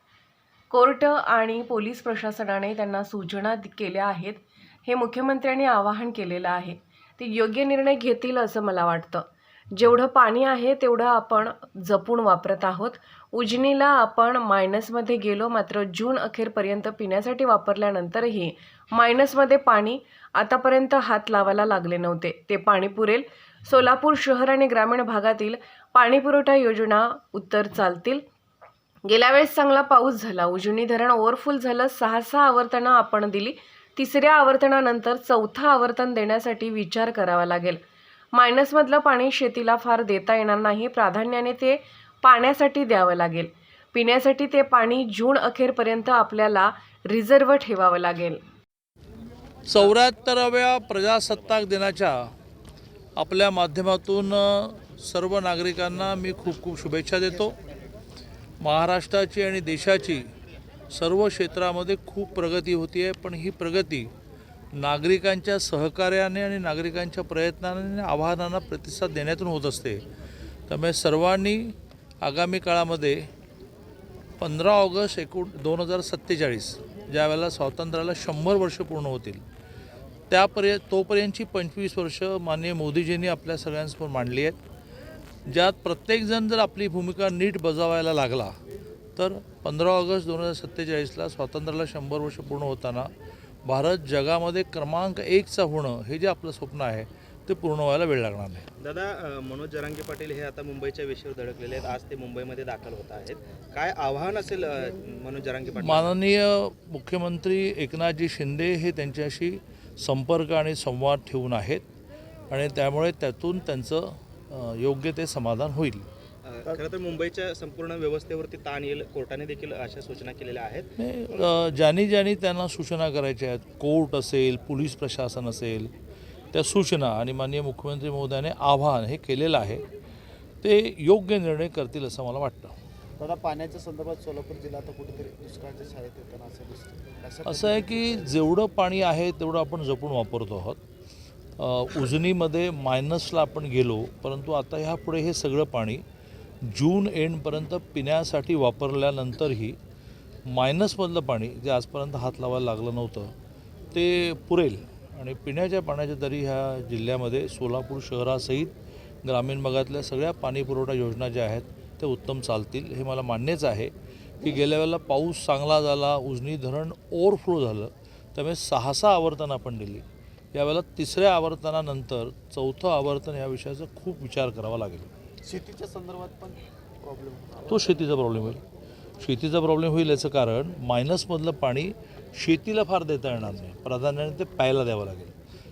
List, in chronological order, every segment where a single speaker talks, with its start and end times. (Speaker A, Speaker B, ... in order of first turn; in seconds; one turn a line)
Speaker A: 0.7-28.2
Speaker A: 29.1-37.8
Speaker A: 38.3-48.4
Speaker B: 49.7-52.3
Speaker B: 53.2-57.6
Speaker B: 58.6-60.3
Speaker B: 60.9-64.1
Speaker B: 64.7-70.0
Speaker B: 70.7-73.3
Speaker B: 74.4-79.4
Speaker B: 80.3-84.6
Speaker B: 85.5-88.6
Speaker B: 89.2-93.1
Speaker B: 93.7-98.7
Speaker C: 98.8-106.2
Speaker B: 105.8-111.8
Speaker B: 112.5-116.1
Speaker C: 116.5-120.9
Speaker B: 121.0-125.9
Speaker B: 126.5-129.8
Speaker B: 130.6-132.7
Speaker D: 133.2-138.4
Speaker B: 137.5-140.8
Speaker B: 141.6-146.0
Speaker B: 146.7-149.8
Speaker B: 150.5-153.3
Speaker B: 153.9-158.7
Speaker B: 159.2-175.1
Speaker D: 175.4-177.9
Speaker B: 177.7-178.6
Speaker B: 179.2-185.3